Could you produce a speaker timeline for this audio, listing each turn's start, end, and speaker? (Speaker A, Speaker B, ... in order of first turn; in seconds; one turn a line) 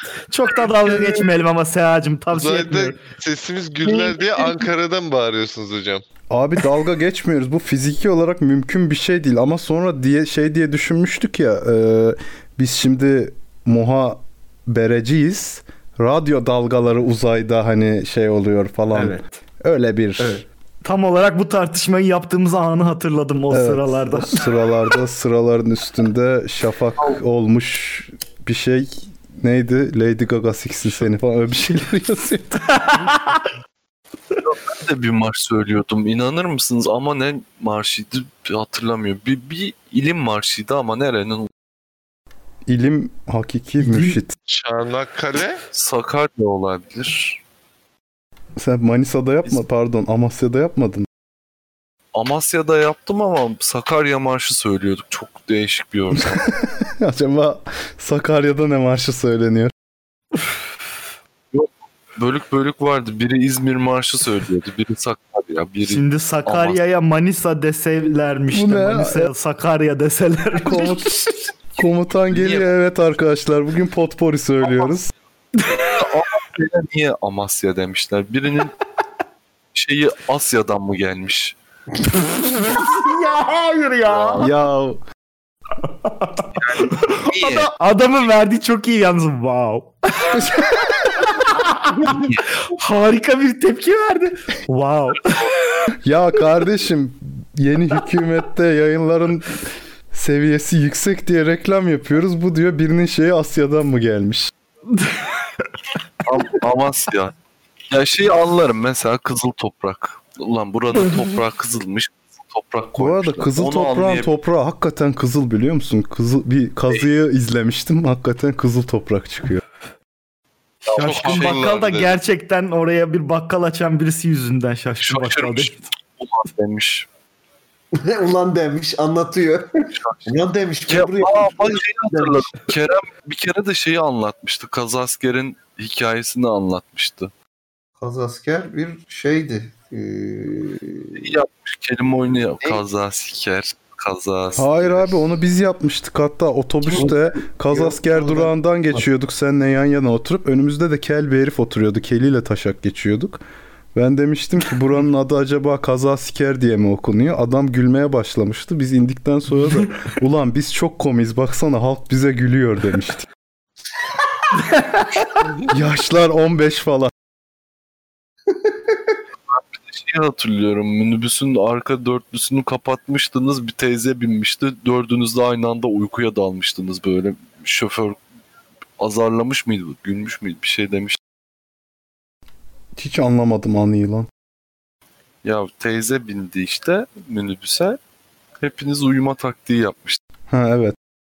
Speaker A: 0.3-3.0
Speaker B: 2.3-6.0
Speaker C: 6.3-20.4
Speaker A: 18.9-19.4
Speaker A: 20.2-24.5
Speaker C: 23.5-32.8
Speaker A: 32.8-33.4
Speaker D: 34.4-41.5
Speaker C: 42.7-44.3
Speaker A: 43.8-44.2
Speaker B: 44.5-45.6
Speaker D: 45.7-47.4
Speaker C: 48.6-51.1
Speaker D: 52.1-56.5
Speaker C: 56.5-59.7
Speaker D: 61.5-66.8
Speaker A: 65.9-71.4
Speaker C: 68.5-69.3
Speaker C: 70.5-71.2
Speaker D: 71.8-72.7
Speaker C: 71.8-75.1
Speaker A: 75.6-75.9
Speaker D: 75.7-78.8
Speaker D: 79.7-81.6
Speaker A: 82.6-84.5
Speaker C: 84.4-85.0
Speaker A: 85.8-95.4
Speaker D: 86.6-87.6
Speaker D: 92.0-92.4
Speaker C: 96.0-104.5
Speaker A: 104.9-105.7
Speaker D: 106.2-107.3
Speaker D: 107.9-114.3
Speaker C: 113.0-119.6
Speaker A: 120.9-125.9
Speaker D: 120.9-121.5
Speaker B: 120.9-122.1
Speaker D: 125.0-127.1
Speaker E: 128.0-132.6
Speaker D: 129.9-130.3
Speaker D: 130.9-137.3
Speaker E: 138.0-141.4
Speaker D: 141.2-145.2
Speaker C: 144.6-153.4
Speaker E: 146.9-149.0
Speaker C: 153.9-163.3
Speaker A: 164.6-165.1
Speaker C: 165.7-167.1
Speaker E: 168.5-169.1
Speaker D: 169.5-178.2
Speaker D: 179.0-181.2
Speaker C: 182.9-184.3
Speaker D: 185.4-188.0
Speaker D: 188.6-190.2
Speaker C: 190.5-190.9